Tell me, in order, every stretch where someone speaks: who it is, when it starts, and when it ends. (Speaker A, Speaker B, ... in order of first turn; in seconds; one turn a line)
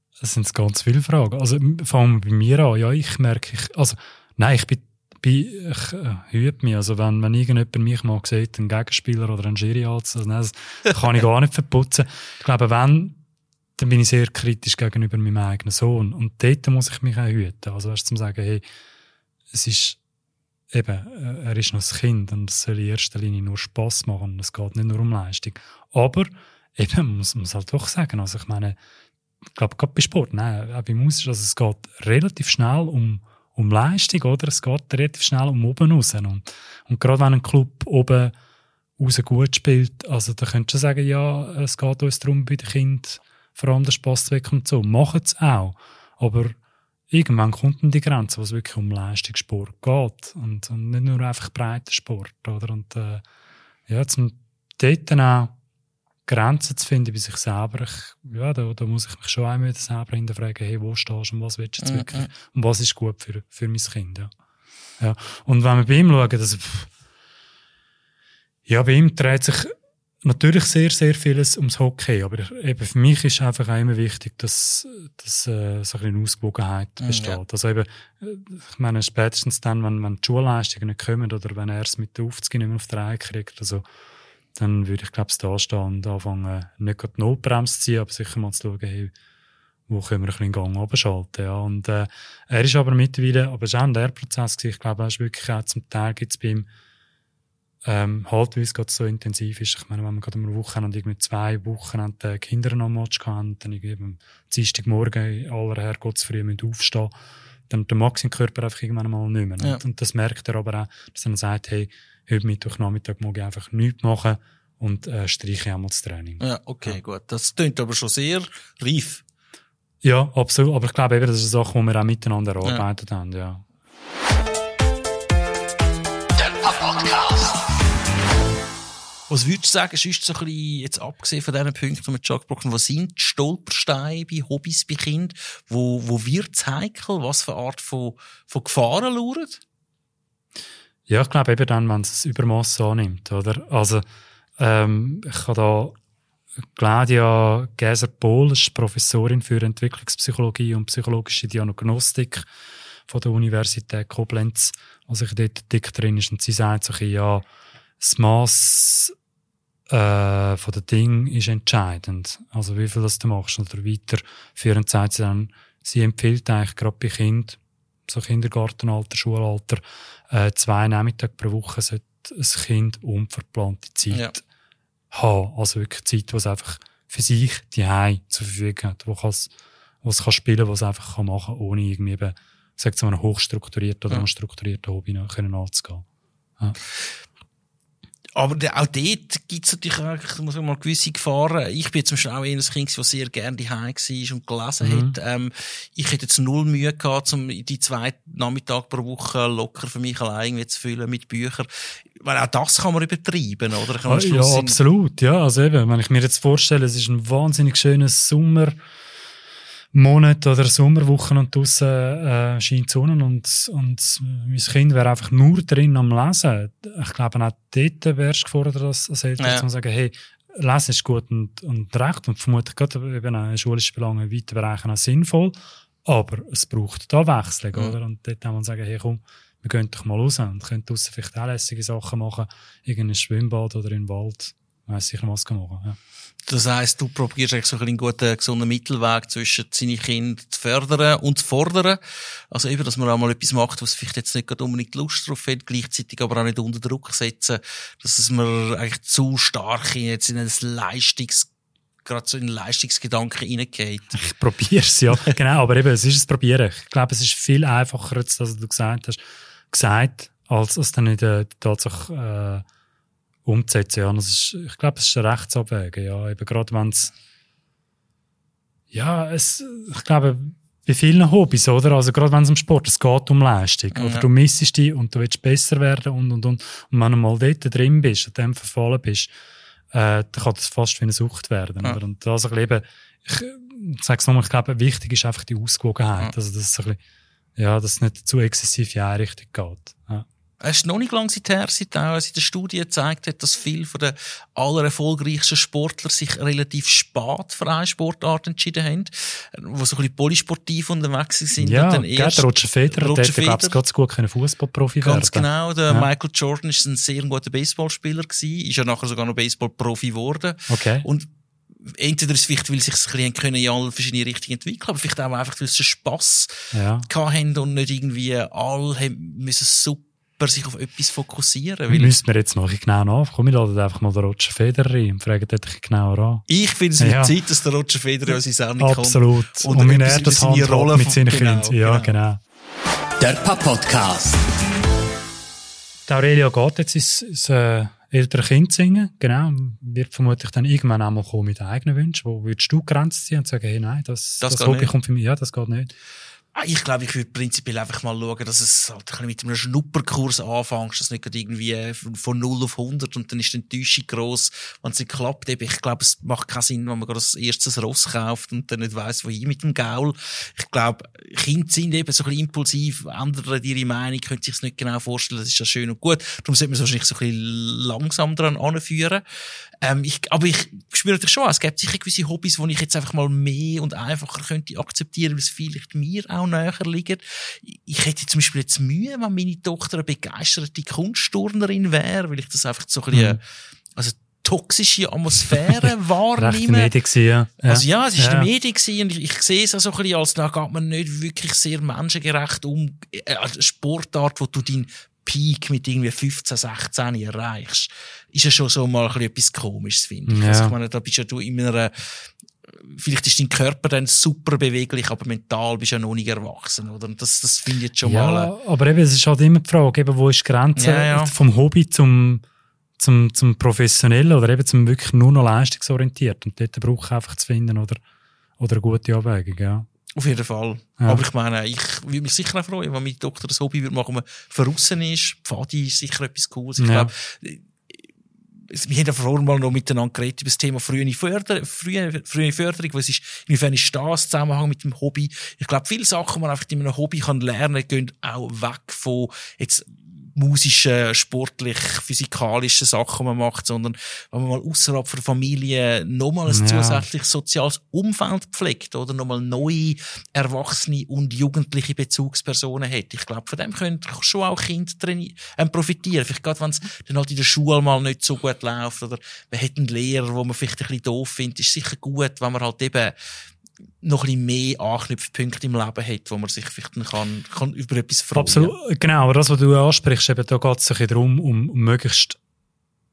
Speaker A: 0.2-13.2
Speaker A: 13.8-18.6
Speaker A: 19.5-20.0
Speaker A: 20.7-28.8
Speaker A: 29.5-38.3
Speaker A: 39.0-46.6
Speaker A: 47.1-53.2
Speaker A: 53.9-55.5
Speaker A: 56.3-64.3
Speaker B: 61.8-62.3
Speaker A: 65.0-66.9
Speaker A: 68.7-83.8
Speaker B: 77.0-77.4
Speaker A: 84.5-89.1
Speaker A: 89.9-96.7
Speaker A: 97.8-107.1
Speaker A: 107.7-117.0
Speaker B: 116.4-119.2
Speaker A: 120.0-123.6
Speaker C: 126.5-127.3
Speaker B: 129.3-139.6
Speaker A: 141.1-144.0
Speaker A: 144.6-145.9
Speaker A: 146.8-152.4
Speaker A: 153.1-157.4
Speaker A: 158.0-159.1
Speaker A: 159.9-174.4
Speaker A: 175.1-179.5
Speaker A: 180.0-186.0
Speaker B: 188.3-204.8
Speaker A: 194.8-195.1
Speaker A: 204.1-208.8
Speaker A: 209.9-236.0
Speaker B: 219.4-219.6
Speaker B: 236.5-251.5
Speaker B: 252.0-254.2
Speaker A: 254.1-262.6
Speaker A: 263.4-267.1
Speaker A: 268.9-279.3
Speaker B: 273.9-274.2
Speaker A: 279.9-287.0
Speaker A: 287.6-290.2
Speaker B: 290.6-303.8
Speaker A: 301.6-306.1
Speaker B: 305.0-311.3
Speaker A: 310.7-311.1
Speaker B: 311.9-316.5
Speaker A: 316.7-317.1
Speaker B: 317.1-322.1
Speaker A: 321.9-326.4
Speaker B: 326.5-332.1
Speaker A: 327.0-327.3
Speaker A: 328.8-332.4
Speaker C: 333.2-334.4
Speaker A: 336.1-345.9
Speaker B: 344.4-344.9
Speaker B: 346.5-369.2
Speaker B: 369.8-383.4
Speaker A: 383.1-383.4
Speaker B: 383.9-386.9
Speaker A: 385.7-388.5
Speaker B: 387.6-408.5
Speaker A: 400.3-400.7
Speaker A: 408.0-412.4
Speaker B: 410.8-411.3
Speaker A: 413.0-418.0
Speaker A: 418.6-419.9
Speaker B: 420.1-427.9
Speaker A: 421.0-421.2
Speaker A: 426.8-427.1
Speaker B: 428.7-463.1
Speaker A: 446.5-447.0
Speaker B: 464.0-468.7
Speaker A: 468.3-472.4